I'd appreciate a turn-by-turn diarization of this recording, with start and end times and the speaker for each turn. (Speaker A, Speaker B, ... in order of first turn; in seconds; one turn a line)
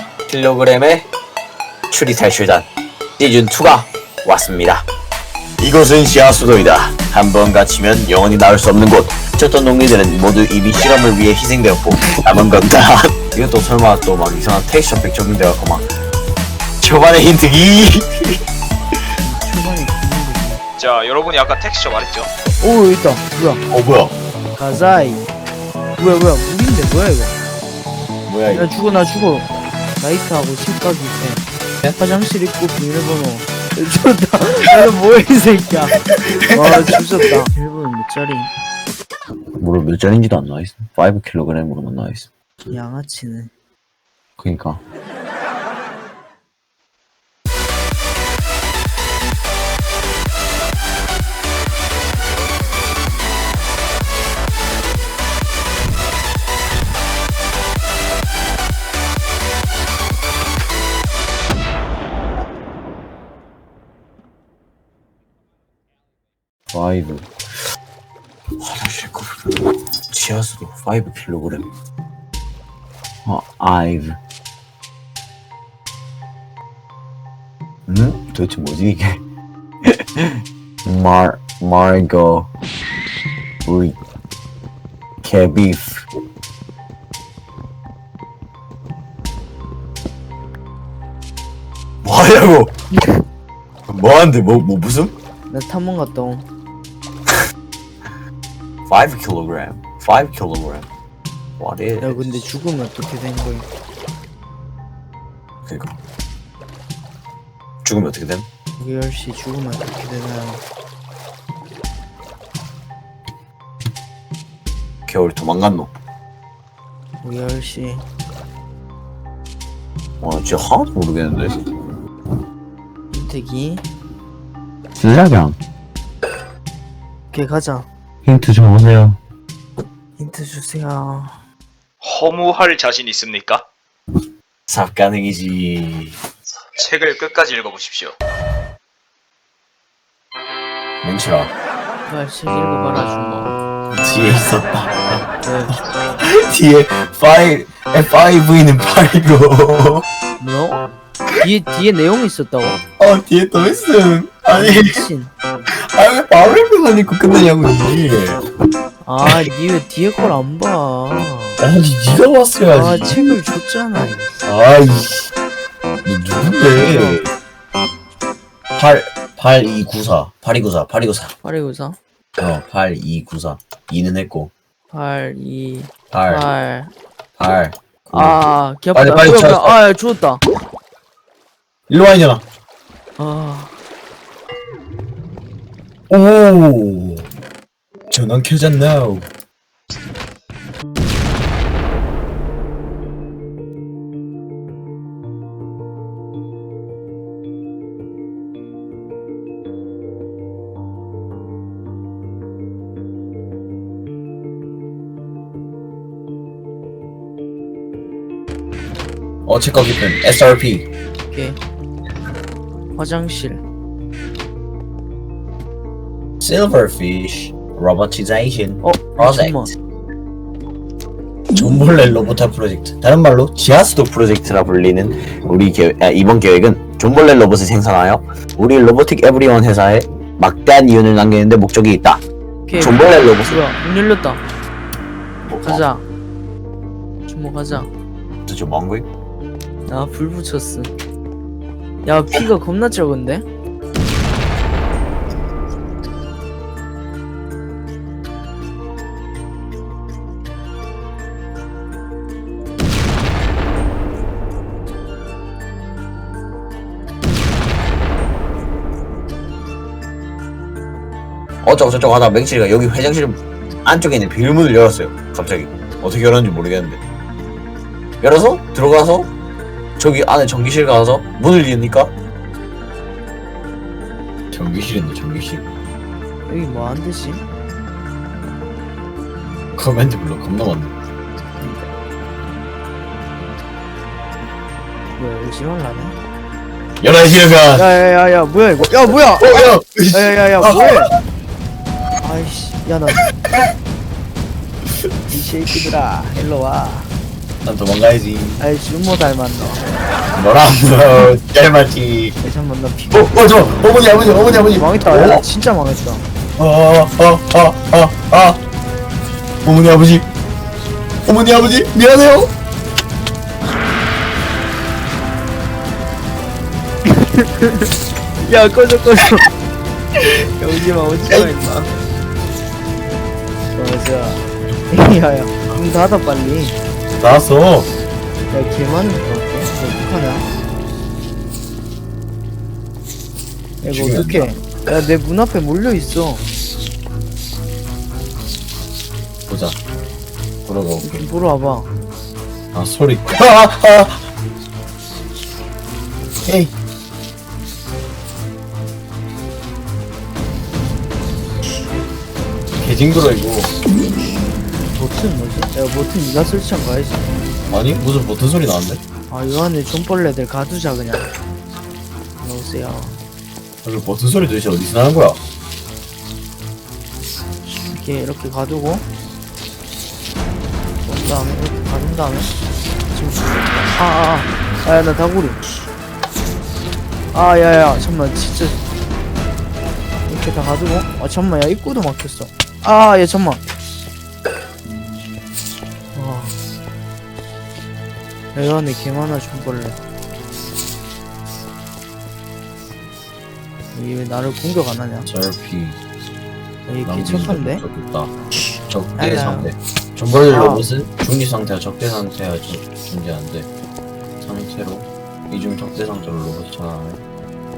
Speaker A: 0.3-1.1
Speaker A: 1.9-2.7
Speaker A: 3.2-4.9
Speaker A: 5.6-15.9
Speaker A: 16.8-18.4
Speaker B: 19.2-20.6
Speaker C: 20.8-22.3
Speaker B: 22.6-23.6
Speaker A: 23.7-24.1
Speaker B: 24.5-25.3
Speaker B: 26.0-27.3
Speaker A: 28.3-28.7
Speaker B: 28.4-31.4
Speaker B: 32.0-36.0
Speaker A: 36.2-36.8
Speaker B: 36.5-38.5
Speaker A: 39.6-42.3
Speaker B: 42.7-43.5
Speaker A: 44.4-44.8
Speaker A: 66.7-67.3
Speaker A: 68.6-71.6
Speaker A: 73.2-74.2
Speaker A: 77.9-79.2
Speaker A: 79.8-82.5
Speaker A: 83.6-84.0
Speaker A: 85.2-86.1
Speaker A: 92.0-92.7
Speaker A: 93.9-95.1
Speaker B: 95.5-96.5
Speaker A: 98.9-100.9
Speaker A: 101.6-102.4
Speaker B: 102.0-103.7
Speaker A: 105.7-106.0
Speaker A: 107.8-108.5
Speaker B: 108.8-110.6
Speaker A: 115.1-115.9
Speaker B: 117.2-118.0
Speaker A: 120.2-121.6
Speaker B: 123.1-123.9
Speaker A: 125.0-125.6
Speaker B: 127.3-127.9
Speaker A: 128.2-129.2
Speaker B: 130.2-131.4
Speaker C: 132.0-133.7
Speaker A: 134.7-136.2
Speaker C: 136.8-138.2
Speaker A: 141.0-141.5
Speaker B: 142.1-143.5
Speaker A: 143.9-145.0
Speaker B: 145.4-145.8
Speaker A: 146.2-150.1
Speaker B: 150.4-150.8
Speaker B: 151.4-152.8
Speaker A: 153.0-155.0
Speaker B: 154.5-155.3
Speaker A: 155.7-158.4
Speaker B: 159.0-161.6
Speaker A: 159.2-159.5
Speaker A: 161.6-163.3
Speaker B: 162.7-164.3
Speaker A: 164.4-165.3
Speaker A: 166.0-167.3
Speaker B: 166.6-167.2
Speaker A: 168.8-171.3
Speaker B: 171.4-172.0
Speaker A: 172.4-174.5
Speaker B: 174.9-176.9
Speaker A: 176.1-176.4
Speaker A: 177.4-178.4
Speaker B: 178.1-180.4
Speaker A: 178.9-179.8
Speaker A: 181.9-182.4
Speaker B: 183.2-183.8
Speaker A: 186.1-187.2
Speaker A: 188.1-189.3
Speaker A: 209.4-210.9
Speaker B: 211.2-211.6
Speaker B: 212.9-213.6
Speaker A: 216.4-219.6
Speaker B: 218.8-219.7
Speaker A: 221.5-232.2
Speaker B: 232.6-234.4
Speaker A: 232.8-233.6
Speaker A: 235.4-235.8
Speaker B: 235.6-236.0
Speaker B: 237.3-237.9
Speaker A: 238.5-239.1
Speaker B: 239.9-240.9
Speaker B: 242.0-243.4
Speaker A: 261.6-267.0
Speaker A: 268.2-269.3
Speaker A: 270.0-272.1
Speaker A: 274.5-275.6
Speaker B: 276.5-277.4
Speaker A: 279.7-280.9
Speaker B: 281.6-281.9
Speaker B: 285.1-286.2
Speaker A: 287.0-287.9
Speaker B: 287.8-291.1
Speaker A: 289.4-291.0
Speaker B: 292.2-293.3
Speaker B: 295.3-297.1
Speaker A: 297.6-298.6
Speaker B: 298.6-299.8
Speaker A: 300.3-302.4
Speaker B: 302.4-303.4
Speaker A: 303.1-305.4
Speaker B: 304.3-306.3
Speaker A: 306.6-308.6
Speaker A: 309.6-310.3
Speaker A: 311.2-312.5
Speaker B: 317.0-317.9
Speaker B: 318.4-319.4
Speaker B: 320.2-322.0
Speaker B: 323.7-326.8
Speaker A: 327.2-327.9
Speaker B: 328.5-330.4
Speaker B: 333.8-336.4
Speaker A: 333.9-334.5
Speaker A: 339.5-339.8
Speaker A: 340.6-341.2
Speaker B: 341.0-341.9
Speaker A: 342.7-344.2
Speaker A: 346.4-346.7
Speaker A: 352.8-353.7
Speaker B: 354.9-357.3
Speaker A: 357.7-359.0
Speaker B: 359.3-361.3
Speaker B: 362.4-363.2
Speaker A: 363.8-365.4
Speaker B: 367.6-369.1
Speaker B: 371.0-372.5
Speaker B: 373.1-375.6
Speaker B: 377.3-378.8
Speaker B: 380.3-383.6
Speaker B: 386.1-386.6
Speaker B: 388.5-390.0
Speaker B: 393.9-395.3
Speaker A: 395.2-396.0
Speaker B: 396.9-397.8
Speaker A: 397.0-398.3
Speaker A: 398.9-403.7
Speaker B: 399.1-399.7
Speaker B: 400.5-400.8
Speaker A: 404.4-407.2